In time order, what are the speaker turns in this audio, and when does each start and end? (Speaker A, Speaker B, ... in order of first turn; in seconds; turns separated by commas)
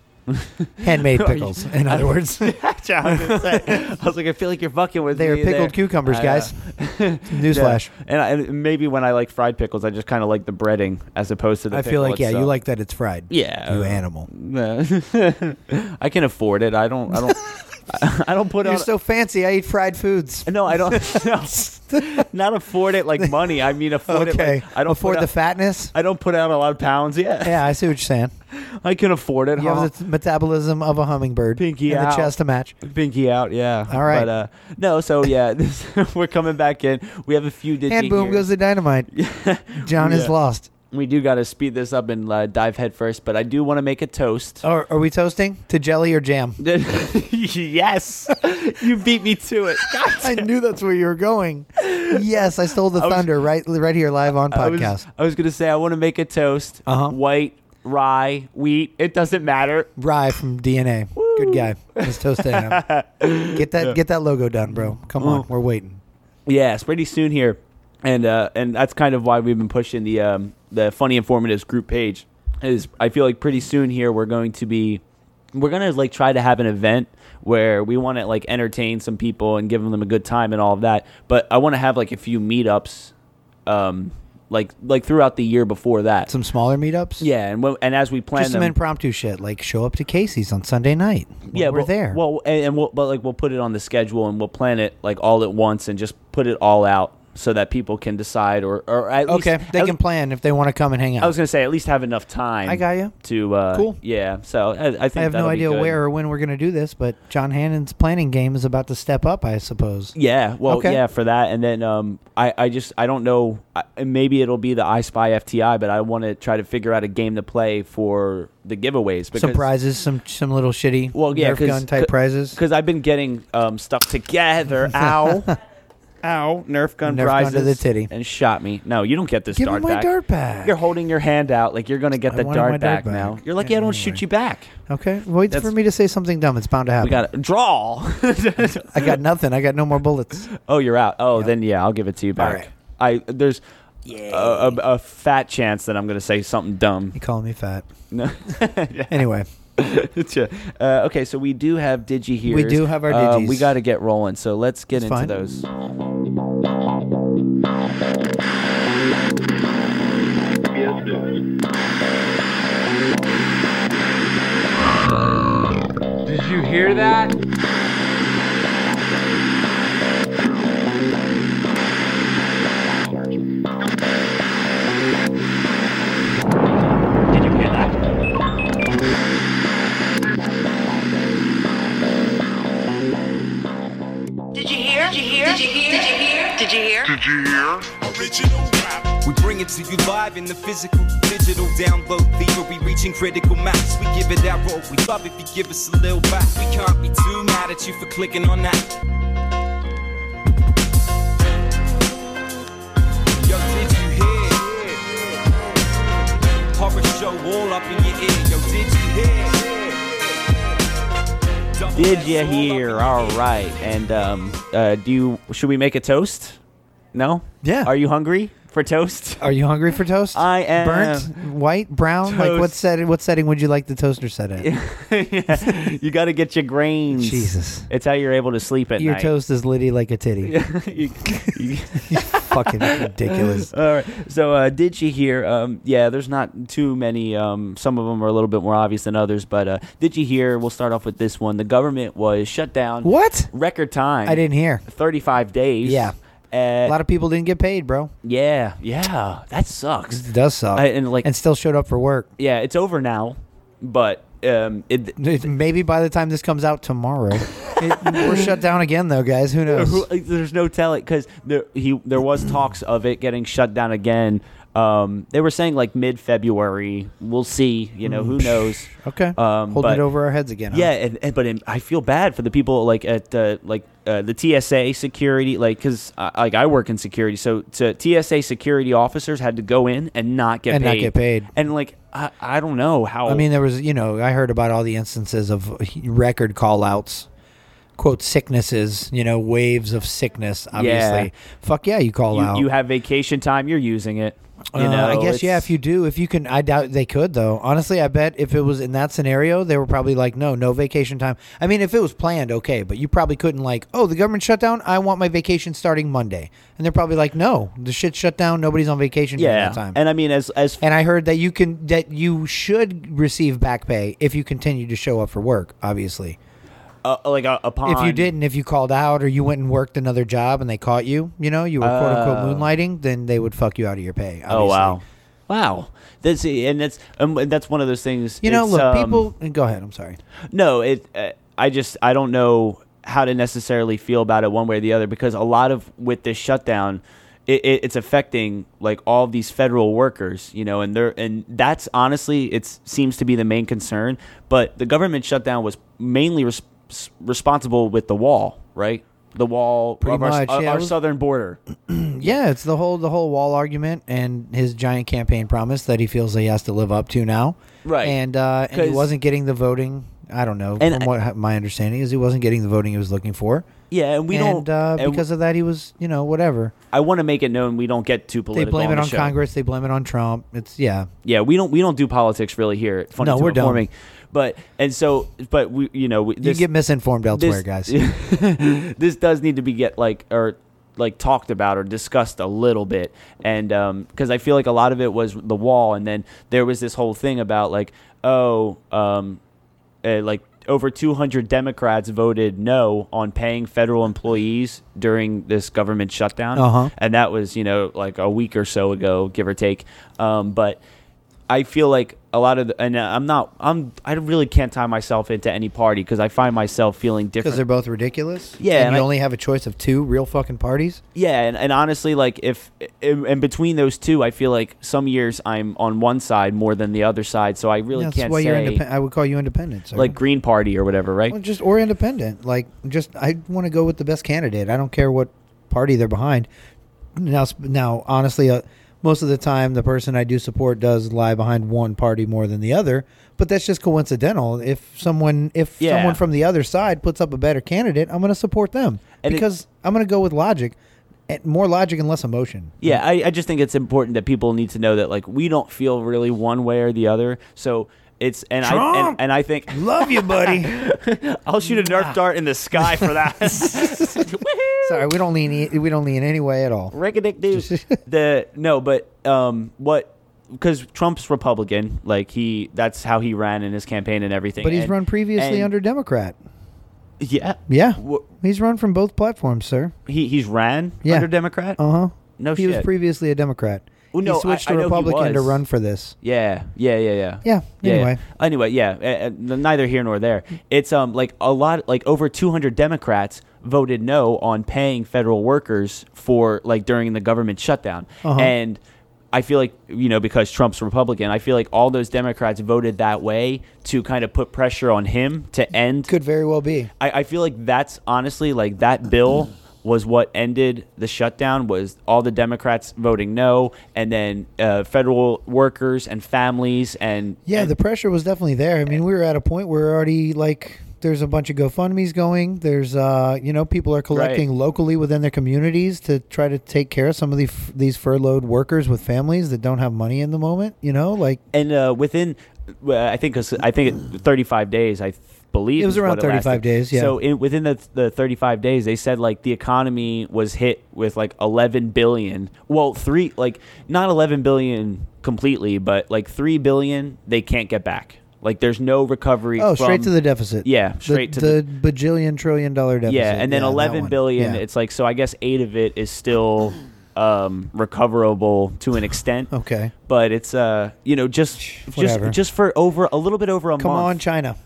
Speaker A: 0.3-12.5, Speaker B: 0.8-3.8, Speaker B: 5.1-6.5, Speaker B: 7.3-7.9, Speaker B: 11.7-14.3, Speaker A: 13.3-18.9, Speaker B: 18.6-22.3, Speaker A: 20.5-25.3, Speaker B: 24.1-25.9, Speaker A: 25.9-27.7, Speaker B: 27.4-28.3, Speaker A: 28.5-29.9, Speaker B: 29.6-32.8, Speaker A: 31.6-38.5, Speaker B: 33.9-34.3, Speaker B: 37.9-39.1, Speaker A: 39.1-40.3, Speaker B: 39.8-40.7, Speaker A: 40.9-44.6, Speaker B: 44.6-46.6, Speaker A: 46.6-50.5, Speaker B: 50.1-55.0, Speaker A: 51.8-52.2, Speaker A: 52.9-53.3, Speaker A: 54.5-59.9, Speaker B: 56.9-57.2, Speaker B: 60.0-62.8, Speaker A: 61.1-64.0, Speaker B: 63.5-66.0, Speaker A: 65.2-65.5, Speaker A: 66.5-75.0, Speaker A: 75.5-83.1, Speaker A: 83.7-86.3, Speaker B: 86.3-87.3, Speaker A: 87.2-88.8, Speaker B: 88.3-92.2, Speaker A: 91.5-100.0, Speaker B: 99.3-101.3, Speaker A: 101.2-106.0, Speaker B: 102.7-103.1, Speaker B: 103.7-104.0, Speaker B: 105.2-110.1, Speaker A: 110.2-119.7, Speaker B: 110.7-111.0, Speaker B: 119.3-122.6, Speaker A: 121.1-125.6, Speaker B: 125.0-125.3, Speaker A: 126.2-130.1, Speaker B: 127.0-128.1, Speaker B: 129.5-130.8, Speaker A: 130.6-134.7, Speaker B: 132.3-134.2, Speaker B: 134.9-137.3, Speaker A: 137.0-139.2, Speaker B: 138.7-140.5, Speaker A: 140.6-143.6, Speaker B: 142.4-142.7, Speaker B: 144.1-144.8, Speaker A: 144.2-147.2, Speaker B: 147.2-147.9, Speaker A: 148.1-149.2, Speaker B: 149.1-149.5, Speaker A: 149.8-155.7, Speaker B: 152.4-153.8, Speaker B: 154.9-155.4, Speaker A: 177.3-177.9, Speaker C: 184.5-198.9, Speaker C: 203.4-204.9, Speaker C: 206.7-210.0, Speaker C: 211.8-213.4, Speaker A: 211.9-216.6, Speaker A: 217.1-219.5, Speaker B: 217.6-217.9, Speaker B: 219.4-224.7, Speaker A: 220.3-221.4, Speaker A: 222.2-222.8, Speaker A: 224.6-229.3, Speaker B: 227.1-227.9, Speaker B: 229.0-230.5, Speaker A: 230.4-247.0, Speaker B: 232.1-233.7, Speaker B: 243.0-243.5, Speaker B: 244.2-244.8, Speaker B: 245.8-246.2, Speaker B: 246.8-248.1, Speaker A: 248.2-251.3, Speaker B: 250.1-252.3, Speaker A: 252.4-255.3, Speaker B: 255.2-260.1, Speaker A: 257.5-258.5, Speaker A: 259.7-270.0, Speaker B: 268.0-270.9, Speaker A: 270.7-283.5, Speaker B: 280.7-281.5, Speaker B: 283.3-287.3, Speaker B: 288.0-292.7, Speaker A: 290.8-291.3, Speaker A: 292.3-295.7, Speaker B: 294.7-310.0, Speaker A: 309.4-310.8, Speaker B: 310.8-316.4, Speaker A: 317.0-318.3, Speaker B: 317.9-325.0, Speaker A: 321.8-322.7, Speaker A: 324.5-329.3, Speaker B: 328.4-330.2, Speaker A: 330.5-351.6, Speaker B: 350.0-350.9, Speaker B: 351.9-363.7, Speaker A: 357.8-358.2, Speaker A: 358.7-359.1, Speaker A: 360.8-361.1, Speaker A: 363.9-365.2, Speaker B: 364.3-366.7, Speaker A: 366.9-369.3, Speaker B: 368.5-371.1, Speaker A: 371.2-376.6, Speaker B: 373.2-373.9, Speaker B: 376.4-377.9, Speaker A: 377.3-389.4, Speaker A: 390.0-400.8, Speaker B: 396.6-396.9, Speaker A: 401.5-407.6, Speaker B: 407.4-411.0, Speaker A: 408.6-409.1, Speaker A: 411.1-418.8, Speaker B: 417.9-420.2, Speaker A: 419.9-421.4, Speaker B: 421.3-426.5, Speaker B: 427.2-440.8, Speaker A: 435.8-436.2, Speaker B: 441.3-443.0, Speaker A: 442.8-455.2, Speaker B: 448.6-450.8, Speaker B: 451.7-452.2, Speaker B: 452.8-454.3, Speaker B: 454.8-456.9, Speaker A: 456.9-465.7, Speaker B: 457.5-458.0, Speaker B: 464.6-466.4, Speaker A: 467.2-468.3, Speaker B: 467.7-469.9, Speaker A: 470.1-471.8, Speaker B: 471.0-476.1, Speaker A: 472.4-472.9, Speaker A: 474.1-475.6, Speaker A: 476.2-488.8, Speaker B: 477.4-478.2, Speaker B: 488.2-488.5, Speaker A: 489.3-496.1, Speaker B: 496.1-496.9, Speaker A: 497.0-507.7, Speaker B: 507.5-521.4, Speaker A: 514.1-514.5, Speaker A: 521.5-541.6, Speaker B: 525.8-527.2, Speaker B: 539.6-544.6, Speaker A: 543.1-549.5, Speaker B: 549.5-549.9, Speaker A: 550.1-554.2, Speaker B: 551.9-552.4, Speaker B: 553.8-554.6